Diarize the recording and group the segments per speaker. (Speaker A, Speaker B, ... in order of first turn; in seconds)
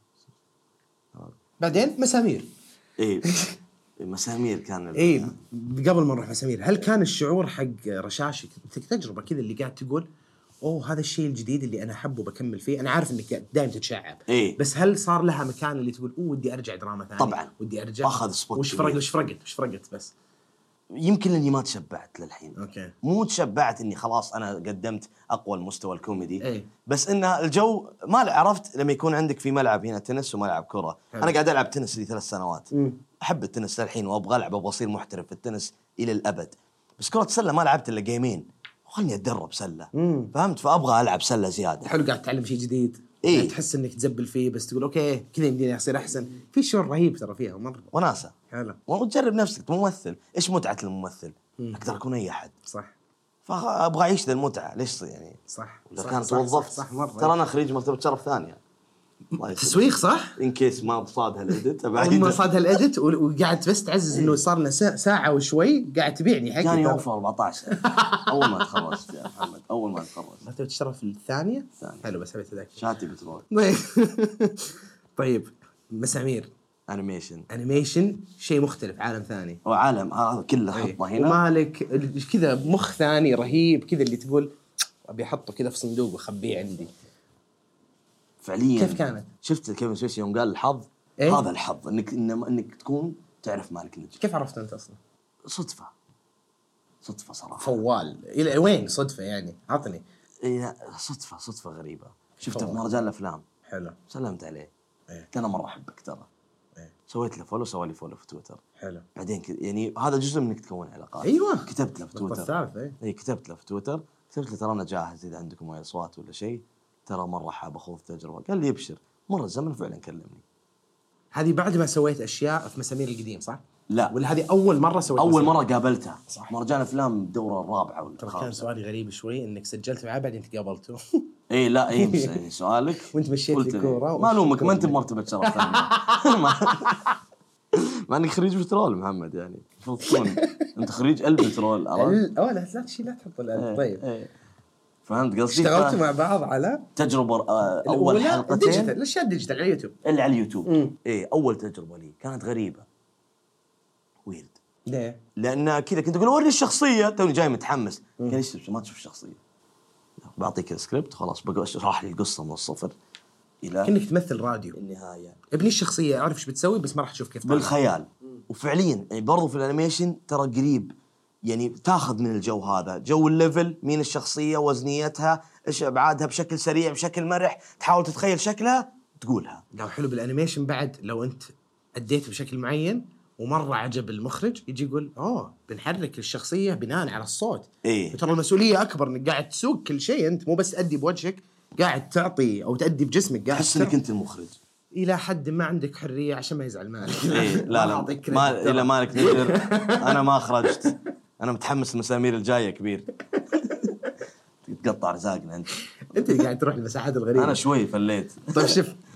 Speaker A: 1.6-2.5, 4.9-10.1, 10.6-20.1, 22.5-22.9, 26.4-26.7, 32.7-33.0, 39.9-40.3, 41.8-47.9, 48.5-48.8, 52.7-52.9, 55.5-57.3, 59.4-60.4, 62.0-67.0, 67.7-69.1, 70.4-72.8, 73.5-76.5, 77.5-79.6, 80.7-86.9, 88.8-89.3, 91.2-91.4, 94.2-95.0, 97.6-100.0, 102.4-102.8, 103.7-104.0, 108.8-109.0, 111.2-113.0, 121.3-125.5, 126.3-126.5, 128.2-131.2, 131.9-132.4, 133.1-137.0, 140.0-140.7, 141.9-144.0, 145.5-146.9, 147.8-149.9, 150.7-150.9, 154.9-155.2, 163.8-164.8, 165.5-167.8, 179.7-193.9, 194.9-201.0, 206.0-207.6, 208.5-209.0
Speaker B: 3.0-3.3, 4.0-5.4, 14.3-14.6, 17.2-17.5, 18.0-19.0, 20.9-41.9, 43.2-43.5, 47.9-48.3, 48.9-52.5, 53.5-55.4, 55.9-58.6, 59.4-62.4, 64.1-64.4, 66.6-70.4, 72.8-73.5, 76.9-77.5, 79.6-81.4, 88.4-94.2, 95.5-95.9, 97.0-97.8, 100.4-103.4, 104.1-104.7, 105.3-106.3, 107.1-108.6, 109.2-120.4, 123.9-124.1, 125.2-128.6, 131.5-137.1, 137.7-142.2, 143.6-144.3, 145.1-146.0, 146.9-148.9, 150.0-152.8, 154.2-154.6, 155.3-159.4, 160.2-162.9, 163.6-163.9, 164.7-165.4, 167.4-170.9, 171.4-179.6, 187.8-188.2, 193.5-194.6, 197.3-203.1, 204.6-206.4, 207.3-208.8